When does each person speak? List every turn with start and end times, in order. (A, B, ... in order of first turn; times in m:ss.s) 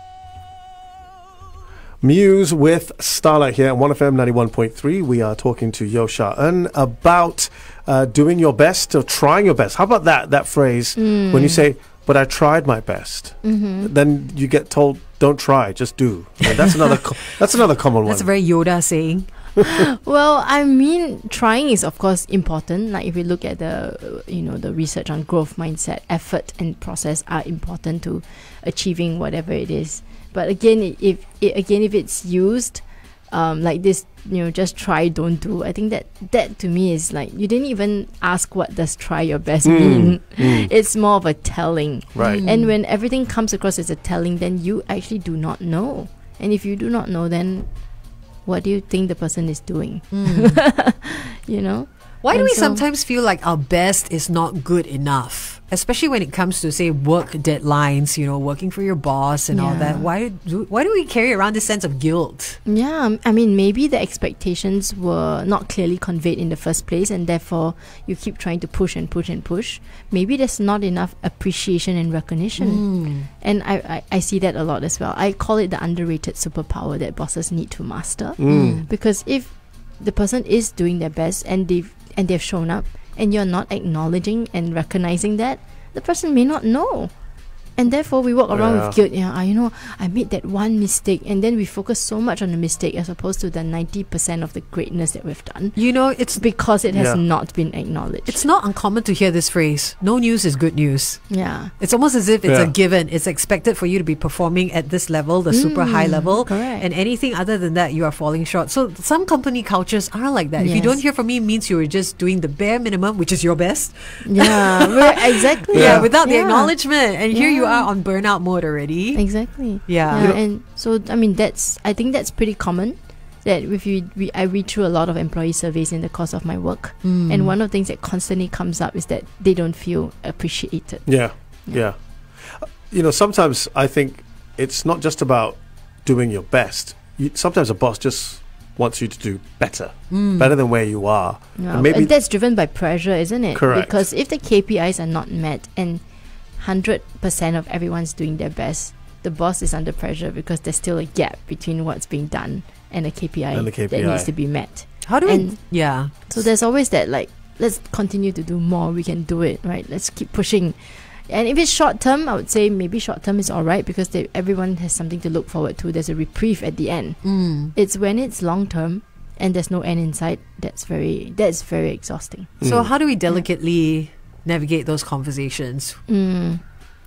0:02.0-0:18.3 A
0:11.0-0:11.6 B
0:13.4-0:13.9 B
0:18.0-0:19.6 C
0:19.6-0:52.8 B
0:39.6-0:40.7 A
0:42.2-0:42.4 A
0:42.2-0:42.7 C
0:50.1-0:50.6 C
0:52.2-1:02.6 C
0:59.5-1:00.1 B
1:02.6-1:27.2 B
1:12.6-1:13.3 C
1:18.4-1:18.8 A
1:18.5-1:18.9 C
1:27.8-1:38.5 B
1:28.5-1:29.0 A
1:35.8-1:36.6 C
1:36.9-1:37.2 A
1:38.3-2:00.4 C
1:41.3-1:41.7 B
1:42.4-1:42.7 A
1:45.5-1:46.9 B
1:50.6-1:51.0 B
1:54.2-1:57.9 B
1:55.7-1:56.1 A
1:59.2-2:11.8 B
2:00.1-2:00.4 A
2:07.0-2:07.5 C
2:11.1-2:22.1 A
2:20.1-2:20.5 C
2:21.6-2:52.6 B
2:23.5-2:24.1 A
2:33.5-2:34.3 A
2:35.0-2:36.3 C
2:47.2-2:47.7 C
2:52.6-2:52.9 A
2:52.6-2:56.0 C
2:56.1-2:56.6 B